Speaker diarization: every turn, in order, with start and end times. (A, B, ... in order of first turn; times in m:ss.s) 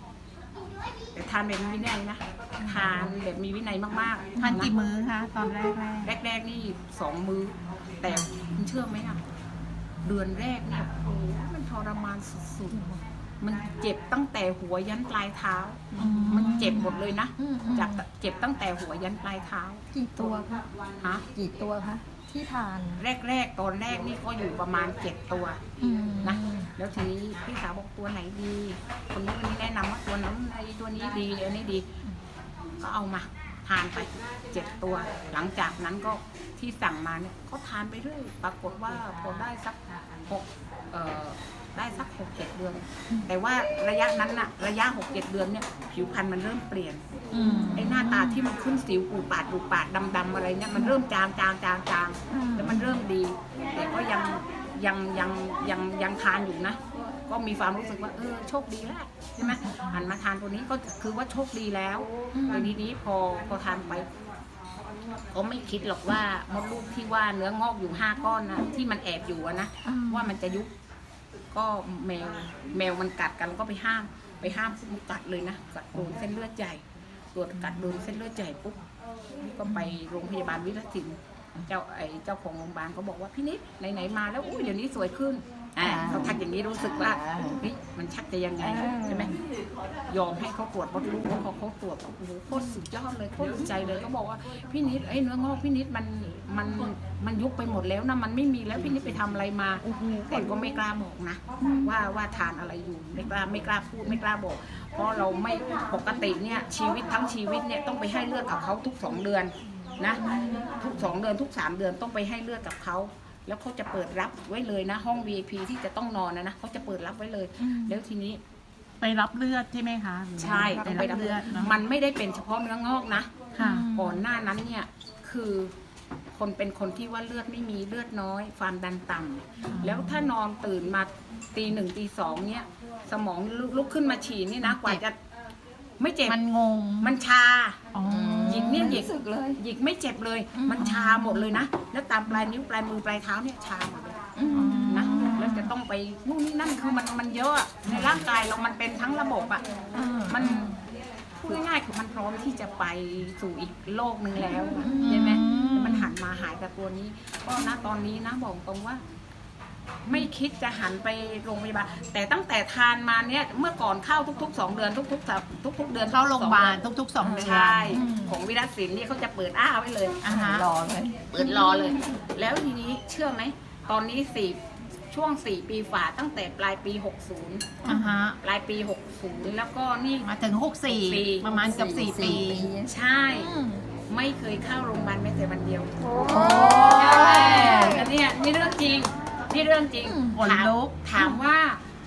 0:01.2-0:04.7 A
0:04.4-0:06.1 B
0:06.0-0:09.2 A
0:10.0-0:12.8 A
0:13.4-0:20.4 A
0:16.0-0:18.0 C
0:16.0-0:16.9 B
0:19.9-0:20.6 C
0:21.3-0:23.0 C
0:23.0-0:25.6 A
0:25.8-0:26.7 C
0:26.2-0:31.9 A
0:32.8-0:47.0 A
0:47.3-0:48.3 B
0:47.4-0:47.9 C
0:47.8-1:04.1 A
0:52.3-0:52.8 C
0:59.4-0:59.8 B
1:02.4-1:02.7 C
1:05.3-1:10.7 A
1:09.8-1:10.3 C
1:11.5-1:16.8 A
1:17.3-1:18.8 A
1:19.4-1:29.3 A
1:25.8-1:26.3 C
1:25.8-1:26.4 B
1:27.2-1:27.6 C
1:28.6-1:29.3 C
1:30.1-1:50.2 A
1:39.8-1:40.7 C
1:41.6-1:41.9 C
1:50.2-1:50.6 C
1:50.8-1:58.4 A
1:59.0-2:01.8 B
2:00.4-2:05.7 A
2:00.9-2:01.7 C
2:03.6-2:03.9 B
2:03.6-2:04.1 C
2:06.3-2:15.2 A
2:09.7-2:10.2 B
2:14.6-2:15.0 B
2:16.0-2:16.4 A
2:16.3-2:17.1 B
2:17.0-2:17.8 A
2:17.9-2:19.0 B
2:18.1-2:19.6 C
2:18.4-2:24.2 A
2:20.6-2:20.9 C
2:20.6-2:21.6 B
2:24.4-2:25.6 C
2:24.5-2:25.7 B
2:24.9-2:29.6 A
2:30.0-2:30.8 C
2:30.3-2:30.7 A
2:31.4-2:39.0 A
2:34.8-2:36.0 C
2:35.0-2:36.1 B
2:40.1-2:46.8 A
2:46.1-2:48.4 B
2:47.2-2:48.2 C
2:47.4-2:50.2 A
2:50.2-2:50.7 B
2:50.3-2:52.0 C
2:51.3-2:54.6 A
2:55.1-2:57.8 A
2:57.8-2:58.4 B
2:58.4-3:00.3 A
3:00.2-3:02.7 B
3:00.9-3:01.6 A
3:01.6-3:02.9 C
3:02.9-3:03.5 A
3:03.4-3:03.8 B
3:04.1-3:05.9 A
3:06.2-3:08.0 C
3:06.2-3:08.0 B
3:06.8-3:11.8 A
3:10.0-3:10.4 C
3:10.3-3:11.4 B